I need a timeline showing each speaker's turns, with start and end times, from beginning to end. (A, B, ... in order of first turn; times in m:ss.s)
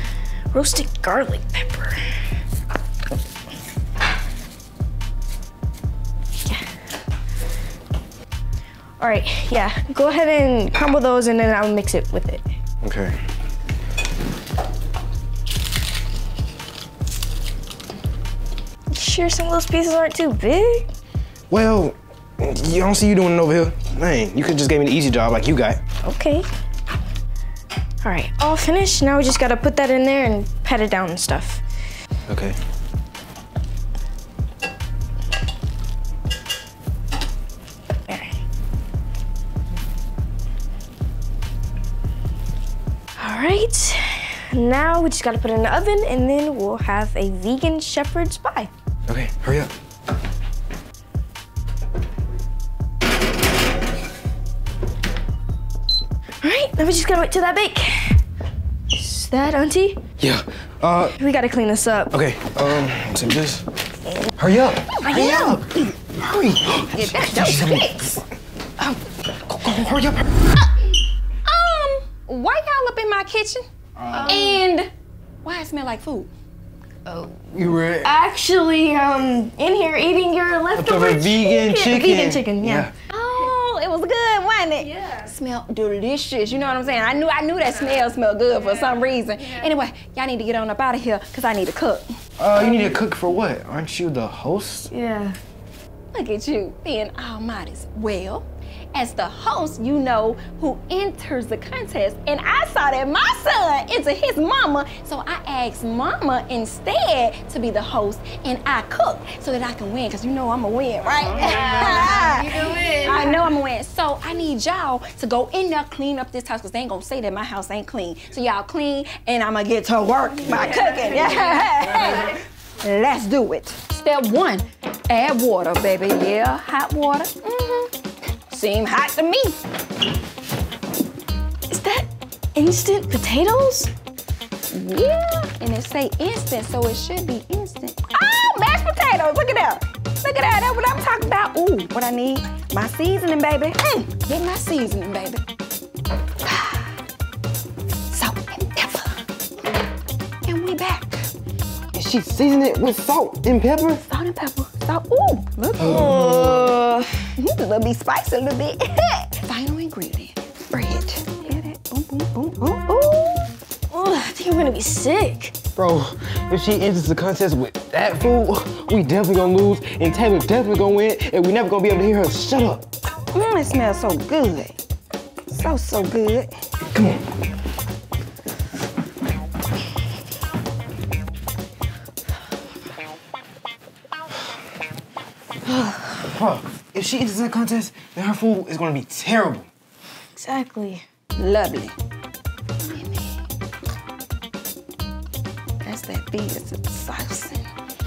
0:00.5-0:02.0 A
0:09.0-0:12.4 A
0:12.8-0:13.2 B
0:18.9-0:20.9 A
0:21.5-0:25.8 B
0:26.0-0:26.5 A
0:28.0-0:31.6 A
0:32.3-0:32.6 B
0:43.2-0:48.7 A
0:49.1-0:49.7 B
0:56.4-0:58.2 A
0:58.9-1:00.0 A
1:00.2-1:01.2 B
1:01.2-1:02.1 A
1:02.1-1:03.7 B
1:04.4-1:08.0 B
1:05.0-1:05.6 C
1:06.9-1:08.2 C
1:09.5-1:10.3 B
1:11.5-1:13.6 C
1:14.0-1:14.4 B
1:14.1-1:14.6 A
1:14.2-1:14.9 C
1:15.4-1:16.3 C
1:17.1-1:17.4 A
1:17.5-1:18.1 B
1:18.0-1:22.9 A
1:20.7-1:22.9 B
1:23.1-1:32.0 C
1:32.4-1:34.9 B
1:34.9-1:35.4 A
1:36.1-2:07.9 C
2:08.5-2:09.6 C
2:11.7-2:13.9 A
2:14.7-2:25.4 C
2:26.4-2:26.9 C
2:28.1-2:29.2 C
2:30.5-2:31.2 C
2:31.9-2:34.0 B
2:34.1-2:36.0 C
2:35.8-2:36.6 B
2:35.8-2:37.3 A
2:37.4-2:43.5 C
2:43.9-2:45.5 A
2:45.8-2:52.9 B
2:53.3-2:54.8 C
2:55.5-2:56.5 C
2:56.9-2:57.2 B
3:06.3-3:09.7 B
3:10.4-3:11.0 A
3:11.4-3:11.9 C
3:12.8-3:13.4 C
3:15.8-3:17.6 C